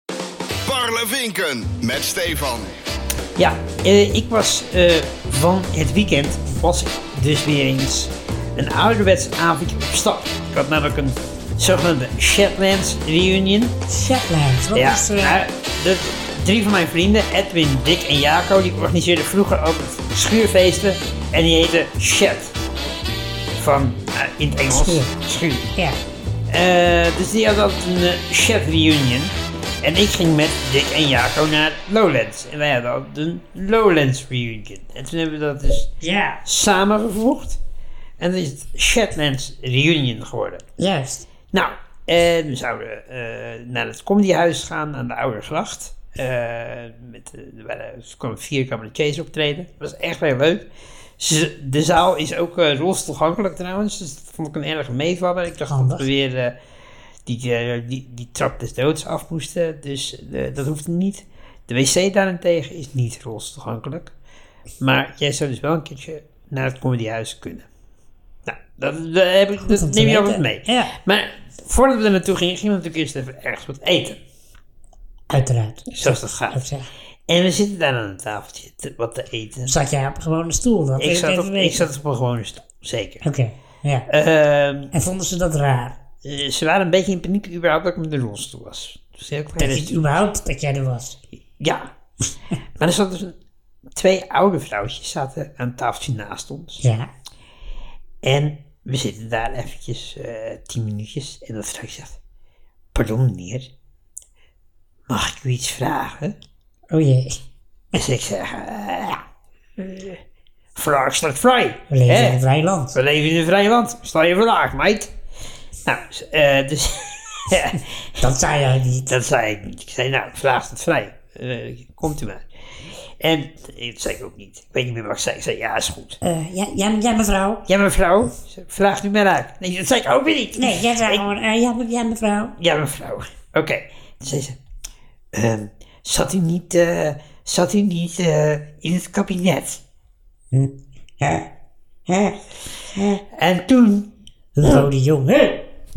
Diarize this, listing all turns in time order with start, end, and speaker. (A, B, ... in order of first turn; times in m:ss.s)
0:00.6-0:02.8 A
0:03.4-0:13.8 B
0:13.9-0:15.4 C
0:14.7-0:22.5 B
0:23.6-0:25.7 B
0:24.7-0:25.1 C
0:26.5-0:35.9 B
0:36.0-0:36.4 C
0:36.4-0:37.6 B
0:38.2-0:40.6 B
0:40.8-0:41.3 C
0:41.5-0:50.7 B
0:51.2-0:56.6 B
0:55.6-0:56.1 C
0:57.2-1:04.1 B
1:04.8-1:07.7 B
1:08.4-1:14.2 B
1:09.6-1:10.9 C
1:15.3-1:16.9 C
1:15.9-1:16.6 B
1:17.3-1:19.7 B
1:19.7-1:21.8 C
1:21.0-1:23.2 B
1:23.2-1:24.1 C
1:24.1-1:24.9 B
1:24.9-1:26.0 C
1:26.2-1:30.0 B
1:29.6-1:31.2 C
1:31.6-1:31.9 B
1:32.8-1:33.4 B
1:33.9-1:36.8 B
1:36.8-1:37.1 C
1:38.2-1:42.2 B
1:42.9-1:43.7 B
1:45.1-1:46.4 B
1:46.9-1:47.3 C
1:47.9-1:49.2 B
1:49.8-1:50.2 B
1:50.7-1:52.4 B
1:51.9-1:53.0 C
1:52.9-1:55.1 B
1:55.8-1:58.0 B
1:58.2-1:59.1 C
1:59.1-2:06.2 B
2:06.2-2:07.7 C
2:07.7-2:11.2 B
2:10.6-2:12.5 C
2:12.6-2:14.6 B
2:15.3-2:19.8 B
2:20.5-2:21.5 C
2:22.1-2:22.4 C
2:22.9-2:23.2 C
2:23.3-2:24.1 B
2:24.6-2:25.7 C